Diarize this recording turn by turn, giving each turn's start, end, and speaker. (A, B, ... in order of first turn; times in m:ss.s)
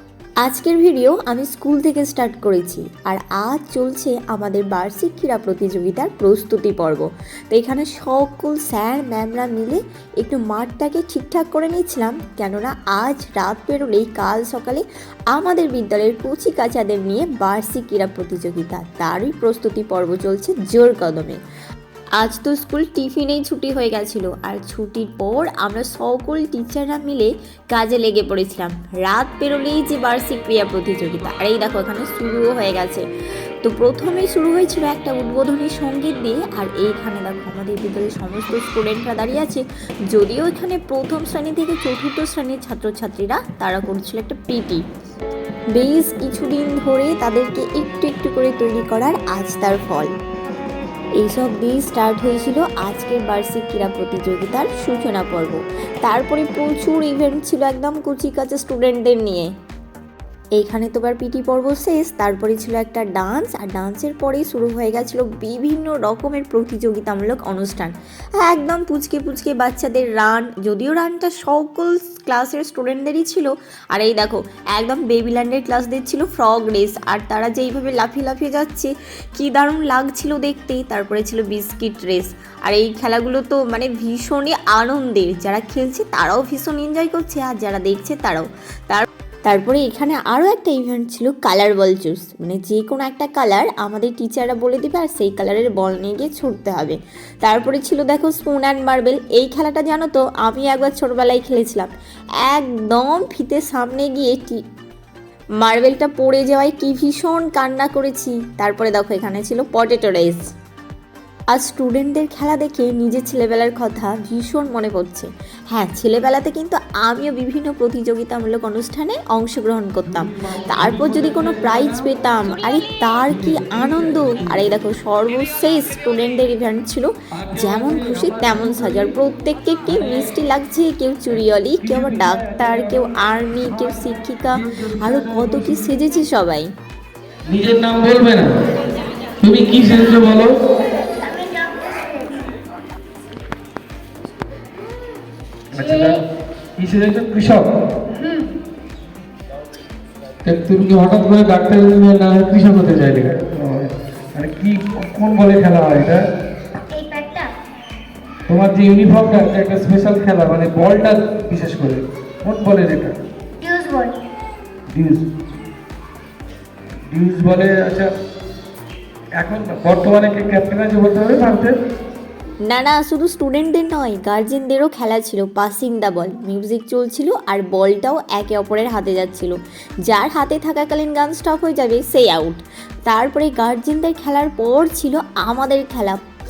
0:00.4-0:21.4 A
0:22.2-0:33.0 A
0:33.6-0:44.8 A
0:45.7-0:50.1 A
0:51.2-0:59.5 A
1:00.6-1:41.9 A
1:42.4-1:44.6 A
1:45.6-1:50.5 A
1:51.5-2:16.7 A
2:00.2-2:02.1 B
2:03.3-2:04.6 B
2:07.3-2:09.2 B
2:09.9-2:10.2 B
2:11.8-2:15.9 B
2:17.5-2:18.5 B
2:19.4-2:20.5 B
2:21.0-2:22.5 C
2:25.7-2:26.2 B
2:25.8-2:26.2 C
2:26.8-2:27.7 B
2:28.1-2:28.5 C
2:30.4-2:36.2 B
2:36.9-2:37.5 C
2:38.5-2:43.2 B
2:43.6-2:44.2 C
2:44.9-2:45.3 B
2:47.1-2:48.1 B
2:49.4-2:51.8 B
2:52.7-2:59.6 A
3:00.1-3:06.2 A